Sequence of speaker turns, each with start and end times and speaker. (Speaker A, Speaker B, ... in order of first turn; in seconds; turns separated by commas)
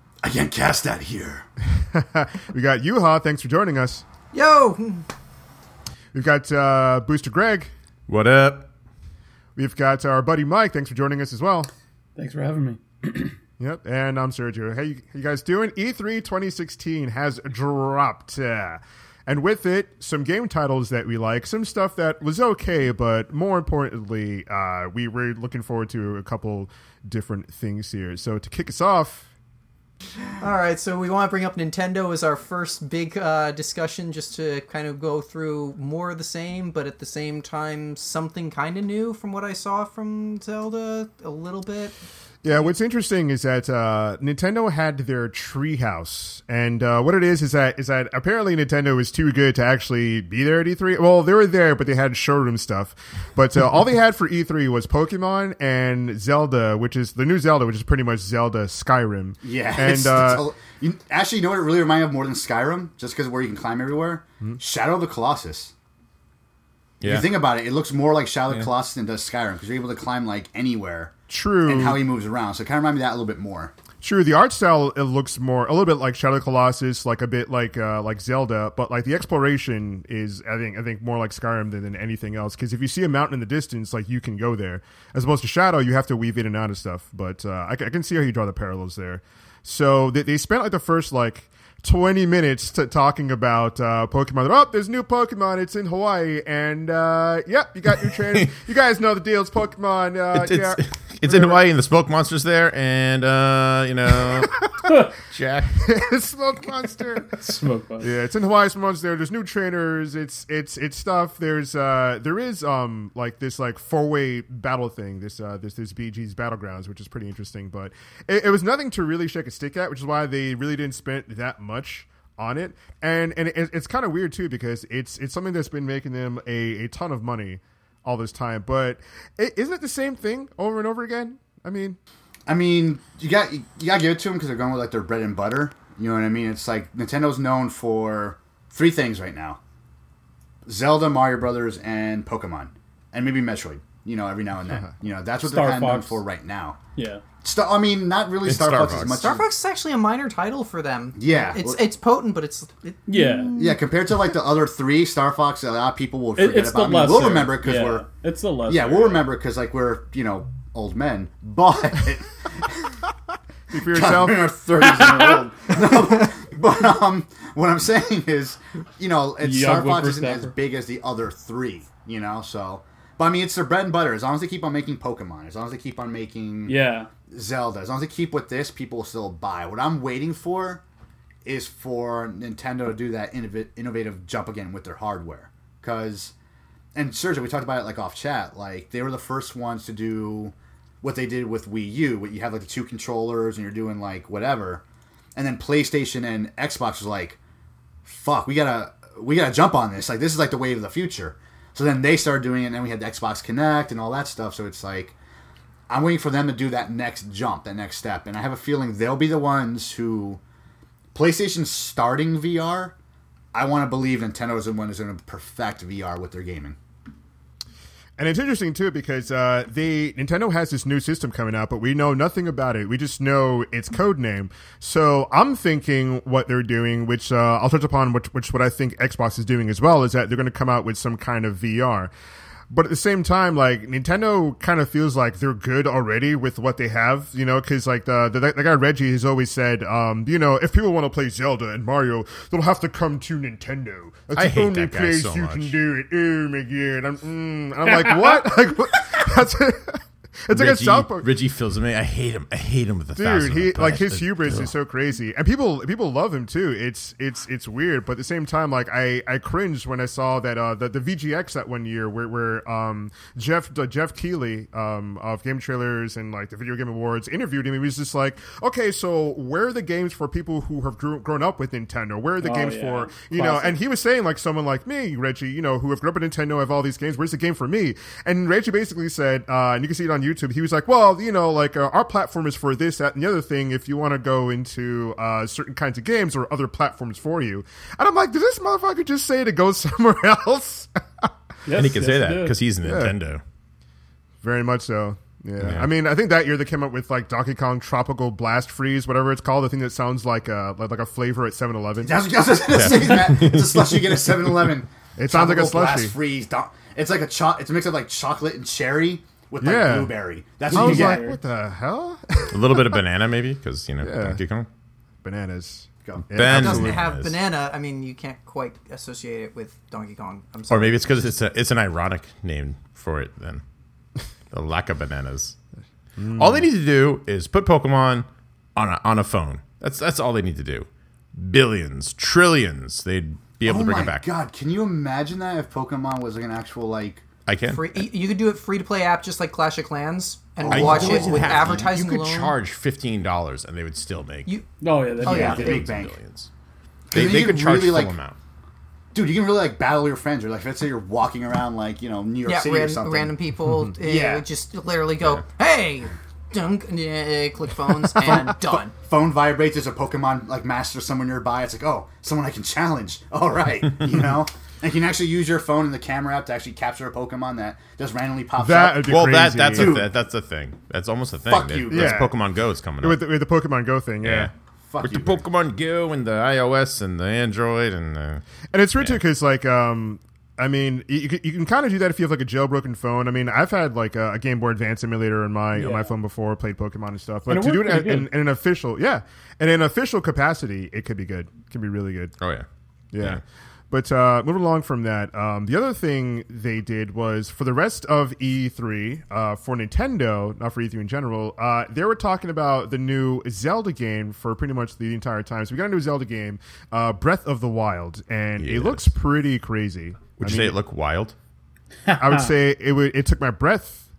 Speaker A: 0.2-1.5, Speaker B: 1.8-4.0, Speaker C: 4.3-5.1, Speaker B: 6.1-7.7, Speaker D: 8.1-8.7, Speaker B: 9.6-11.7, Speaker E: 12.2-13.4, Speaker B: 13.6-29.3, Speaker C: 30.4-42.7, Speaker B: 42.4-60.5, Speaker A: 59.4-65.7, Speaker D: 67.0-67.3, Speaker A: 67.0-73.7, Speaker B: 71.3-72.0, Speaker B: 74.0-101.6, Speaker D: 98.1-98.5, Speaker D: 100.3-106.0, Speaker B: 104.3-104.8, Speaker E: 104.9-105.1, Speaker B: 105.8-107.3, Speaker E: 107.4-108.1, Speaker B: 108.0-132.0, Speaker A: 132.5-139.6, Speaker A: 140.7-146.8, Speaker E: 145.4-146.2, Speaker E: 147.0-147.2, Speaker A: 147.4-149.4, Speaker D: 148.4-149.4, Speaker C: 149.1-153.8, Speaker A: 151.2-151.8, Speaker E: 153.1-153.5, Speaker A: 153.6-158.0, Speaker E: 156.4-159.2, Speaker A: 158.7-163.0, Speaker B: 163.7-164.5, Speaker A: 163.8-176.8, Speaker E: 164.8-165.5, Speaker E: 169.4-170.5, Speaker E: 176.7-177.1, Speaker A: 177.3-180.8, Speaker A: 181.4-186.3, Speaker A: 187.0-194.8, Speaker A: 195.4-197.4, Speaker A: 198.1-205.2, Speaker A: 205.9-210.4, Speaker A: 211.1-212.9, Speaker A: 213.5-216.8, Speaker B: 218.2-232.1, Speaker B: 232.7-251.3, Speaker D: 244.3-245.8, Speaker E: 248.2-248.4, Speaker D: 250.5-254.7, Speaker B: 253.2-291.3, Speaker E: 272.4-273.8, Speaker E: 291.7-292.6, Speaker D: 291.7-293.4, Speaker B: 292.8-293.2, Speaker B: 294.4-302.2, Speaker D: 295.6-295.9, Speaker A: 302.0-311.2, Speaker D: 302.7-304.4, Speaker B: 305.2-306.1, Speaker B: 309.6-310.1, Speaker B: 310.7-313.0, Speaker E: 310.7-311.4, Speaker D: 312.5-314.7, Speaker B: 314.0-314.4, Speaker B: 315.2-317.1, Speaker D: 316.3-317.3, Speaker C: 316.4-321.3, Speaker D: 320.7-323.6, Speaker D: 324.5-325.6, Speaker B: 326.2-326.7, Speaker D: 326.3-334.2, Speaker A: 333.6-337.2, Speaker D: 337.5-338.0, Speaker C: 337.7-342.6, Speaker A: 340.6-341.8, Speaker D: 340.7-344.5, Speaker E: 344.8-345.9, Speaker C: 345.2-345.8, Speaker A: 345.2-346.2, Speaker D: 345.2-346.5, Speaker A: 347.1-348.1, Speaker D: 347.1-348.4, Speaker A: 349.1-353.3, Speaker C: 352.4-358.9, Speaker A: 354.0-354.4, Speaker A: 358.2-369.2, Speaker B: 368.6-370.0, Speaker D: 369.0-373.2, Speaker A: 369.7-370.1, Speaker A: 371.5-372.3, Speaker B: 371.9-372.4, Speaker B: 373.0-374.5, Speaker D: 374.2-374.5, Speaker A: 374.9-375.4, Speaker D: 375.0-378.4, Speaker B: 378.7-392.4, Speaker E: 385.7-386.1, Speaker E: 387.5-388.3, Speaker D: 392.4-392.7, Speaker B: 393.1-410.8, Speaker D: 408.6-409.1, Speaker D: 410.4-411.4, Speaker E: 412.1-412.5, Speaker B: 412.2-414.1